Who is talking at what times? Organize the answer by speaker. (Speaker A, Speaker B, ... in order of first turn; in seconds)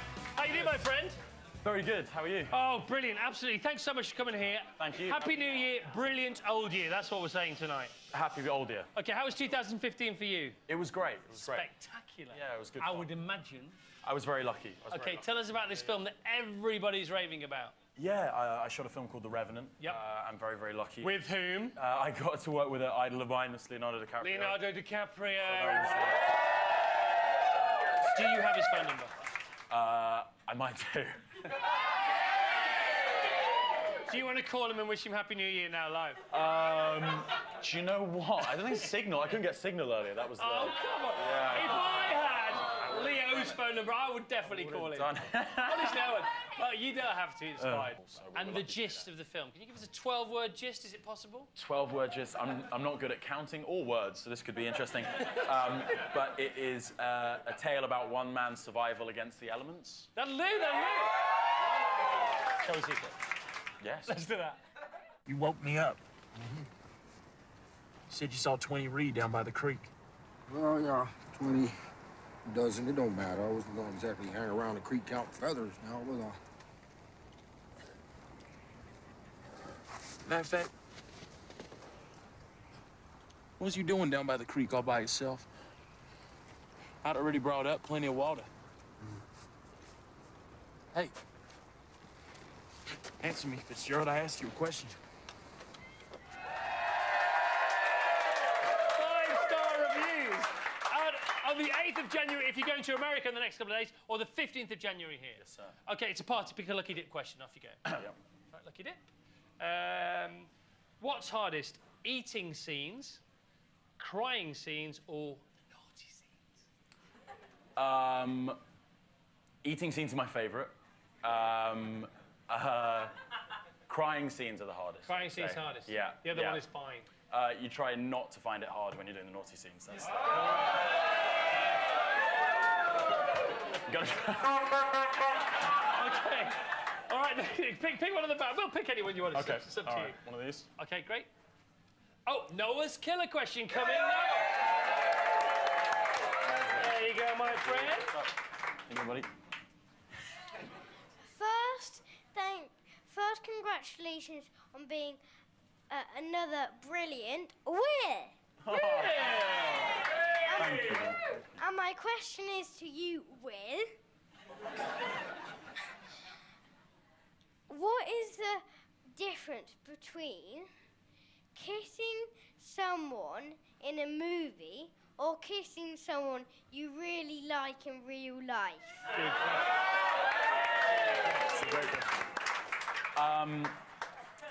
Speaker A: 0.3-1.2, 2.5-7.9, 8.9-10.6, 11.3-13.8, 14.9-17.7, 21.0-21.8, 24.2-26.3, 28.1-29.1, 34.1-36.2, 40.4-51.5, 60.1-61.1, 62.6-63.1, 64.0-64.6, 98.9-109.0, 109.6-110.5, 111.0-113.2, 114.0-116.3, 125.0-127.1, 135.9-140.2, 140.8-141.3, 142.2-144.5, 146.7-148.1, 158.7-160.0, 179.1-179.6
Speaker B: 1.6-2.5, 4.8-5.3, 8.1-8.9, 10.7-11.7, 12.3-13.1, 14.0-15.2, 17.9-21.1, 21.7-24.6, 25.4-26.2, 29.7-31.3, 36.3-41.9, 42.8-43.5, 44.4-46.2, 47.6-49.1, 51.5-60.1, 63.8-64.1, 105.4-105.7, 107.9-108.2, 117.8-118.6, 119.6-123.1, 123.9-126.6, 127.3-130.3, 133.8-134.8, 139.3-140.7, 146.4-148.3, 148.9-149.3, 158.6-159.9, 160.5-161.4, 181.3-182.3, 183.2-183.8
Speaker C: 65.3-66.0, 68.1-69.9, 80.2-80.7, 83.6-85.5, 87.0-88.5, 93.2-95.0
Speaker D: 70.5-71.8, 72.4-76.4
Speaker E: 151.2-155.2, 155.9-158.3, 160.5-160.9, 161.6-163.9, 167.7-170.7, 171.5-179.1